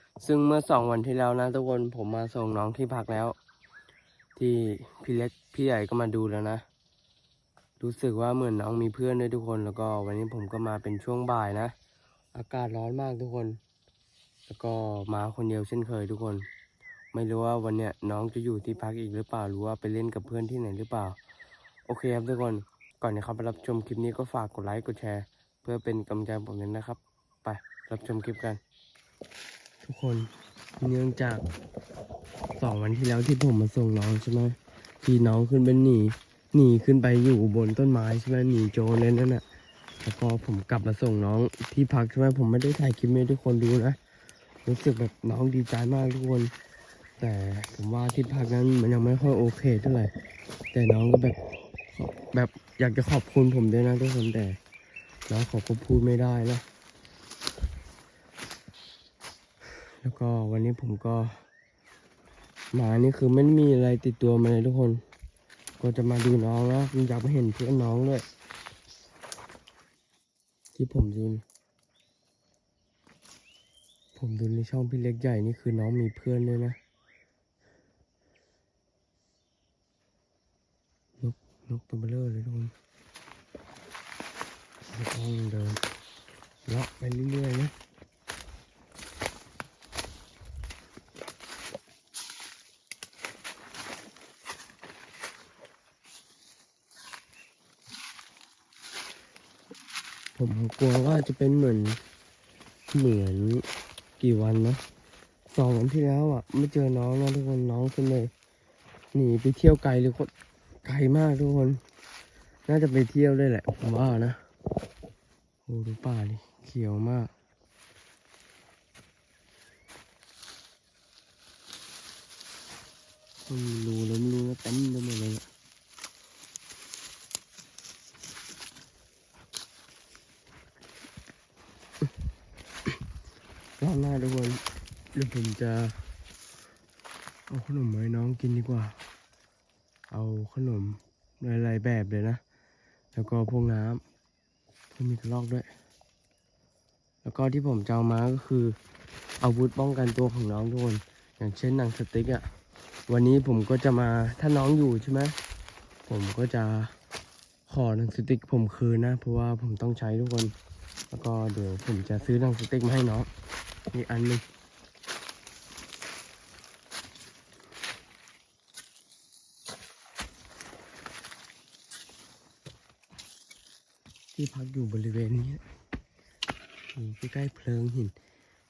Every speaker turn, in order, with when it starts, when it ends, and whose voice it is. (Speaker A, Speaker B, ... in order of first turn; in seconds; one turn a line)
Speaker A: 0.2-3.4
Speaker A: 4.4-6.6
Speaker A: 7.8-11.7
Speaker A: 12.3-13.6
Speaker A: 14.5-16.4
Speaker A: 17.1-21.2
Speaker A: 21.9-28.6
Speaker A: 29.8-31.4
Speaker A: 32.6-39.4
Speaker A: 40.0-44.0
Speaker A: 44.7-46.5
Speaker A: 47.2-50.1
Speaker A: 50.7-51.4
Speaker A: 51.9-54.6
Speaker A: 55.3-56.6
Speaker A: 60.0-61.4
Speaker A: 62.7-65.0
Speaker A: 65.8-68.2
Speaker A: 70.7-71.4
Speaker A: 74.2-76.8
Speaker A: 81.2-82.7
Speaker A: 84.9-85.8
Speaker A: 86.7-87.7
Speaker A: 100.4-102.0
Speaker A: 102.9-103.6
Speaker A: 104.2-104.8
Speaker A: 105.5-108.3
Speaker A: 109.1-110.3
Speaker A: 110.8-111.8
Speaker A: 112.7-114.4
Speaker A: 115.7-117.3
Speaker A: 123.5-125.5
Speaker A: 133.8-134.6
Speaker A: 135.1-136.1
Speaker A: 137.5-139.0
Speaker A: 140.1-142.4
Speaker A: 143.1-144.0
Speaker A: 144.9-145.7
Speaker A: 147.2-148.8
Speaker A: 149.4-152.4
Speaker A: 153.1-155.3
Speaker A: 156.1-156.9
Speaker A: 157.7-160.5
Speaker A: 161.1-163.3
Speaker A: 163.9-164.4
Speaker A: 174.3-175.6
Speaker A: 176.9-178.1